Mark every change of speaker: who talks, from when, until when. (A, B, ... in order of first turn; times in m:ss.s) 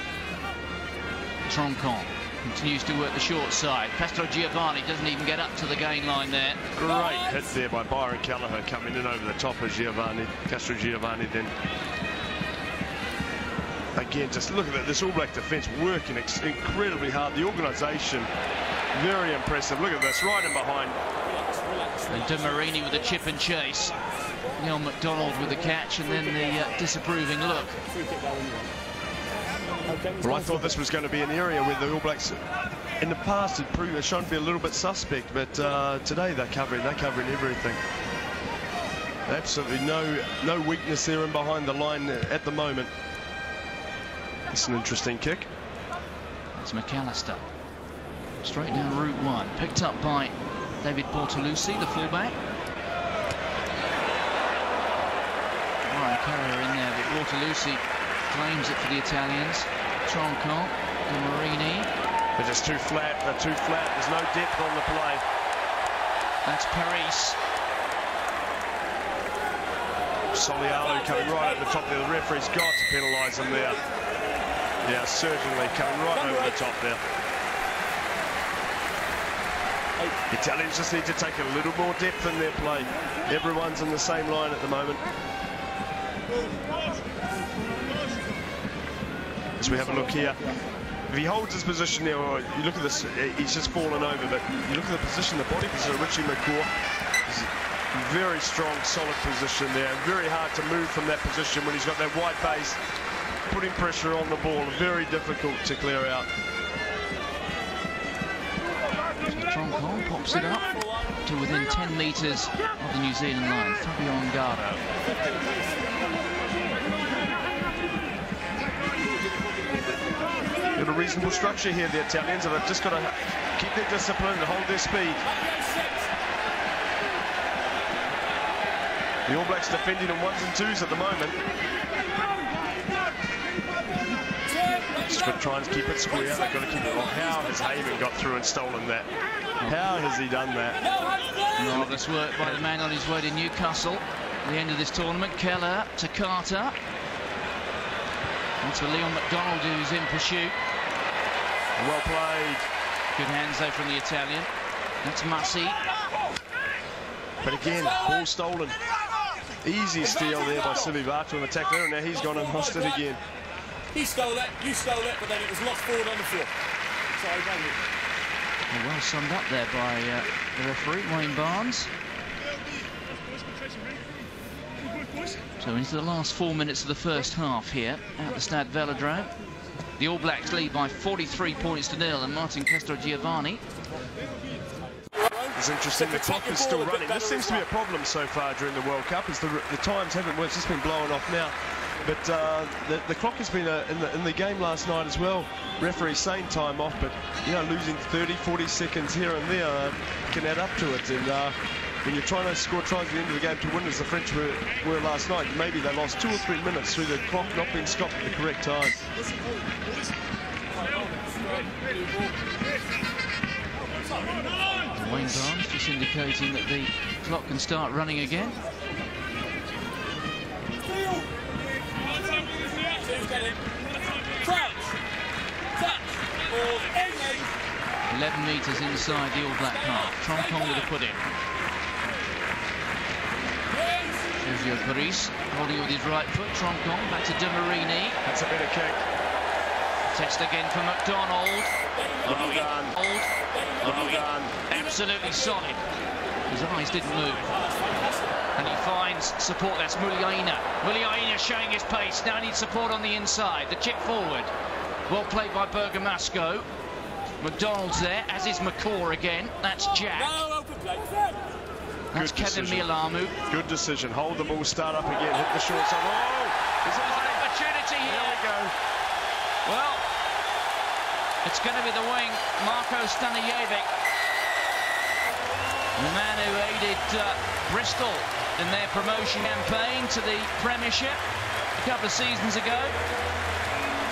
0:01.5-0:06.7 A
0:06.8-0:11.5 B
0:13.9-0:18.3 B
0:18.9-0:21.0 B
0:21.6-0:22.0 C
0:22.1-0:24.0 A
0:24.6-0:27.8 A
0:28.1-0:28.7 C
0:29.9-0:30.4 C
0:30.2-0:32.4 B
0:33.0-0:37.8 B
0:39.2-0:42.9 B
0:44.5-0:45.5 B
0:46.6-0:47.4 A
0:48.4-0:52.4 A
0:55.8-1:01.9 A
1:02.4-1:05.2 B
1:06.4-1:07.4 A
1:10.3-1:13.8 B
1:14.8-1:17.0 B
1:20.3-1:25.0 B
1:29.6-1:30.5 B
1:31.1-1:36.7 B
1:37.3-1:42.8 B
1:43.5-1:46.3 B
1:49.3-1:50.7 A
1:51.2-1:54.8 A
2:00.8-2:05.2 B
2:05.6-2:05.9 C
2:09.3-2:11.4 B
2:14.5-2:15.0 C
2:15.0-2:19.1 B
2:19.6-2:20.8 B
2:21.6-2:26.8 A
2:28.6-2:30.6 A
2:31.8-2:32.6 B
2:33.1-2:34.5 A
2:35.0-2:35.8 A
2:37.4-2:38.8 B
2:39.6-2:43.2 B
2:43.9-2:46.5 C
2:47.2-2:47.7 C
2:48.7-2:51.9 A
2:55.6-2:59.3 A
3:00.0-3:03.6 A
3:05.5-3:29.0 B
3:31.2-3:32.1 C
3:34.9-3:38.6 A
3:42.7-3:43.6 C
3:44.4-3:44.9 C
3:45.9-3:47.5 C
3:48.1-3:51.2 A
3:53.8-3:54.1 C
3:54.4-3:58.2 A
3:58.2-3:59.0 B
4:00.1-4:01.7 A
4:02.2-4:05.8 A
4:02.2-4:03.0 B
4:03.8-4:04.6 B
4:06.5-4:07.5 A
4:08.6-4:14.5 A
4:15.1-4:16.7 A
4:17.4-4:20.4 A
4:20.4-4:21.3 C
4:22.1-4:23.4 A
4:22.1-4:22.9 B
4:23.5-4:27.4 B
4:26.9-4:28.4 A
4:28.0-4:28.7 B
4:29.6-4:30.1 A
4:31.4-4:33.9 A
4:36.0-4:41.2 A
4:41.8-4:42.9 A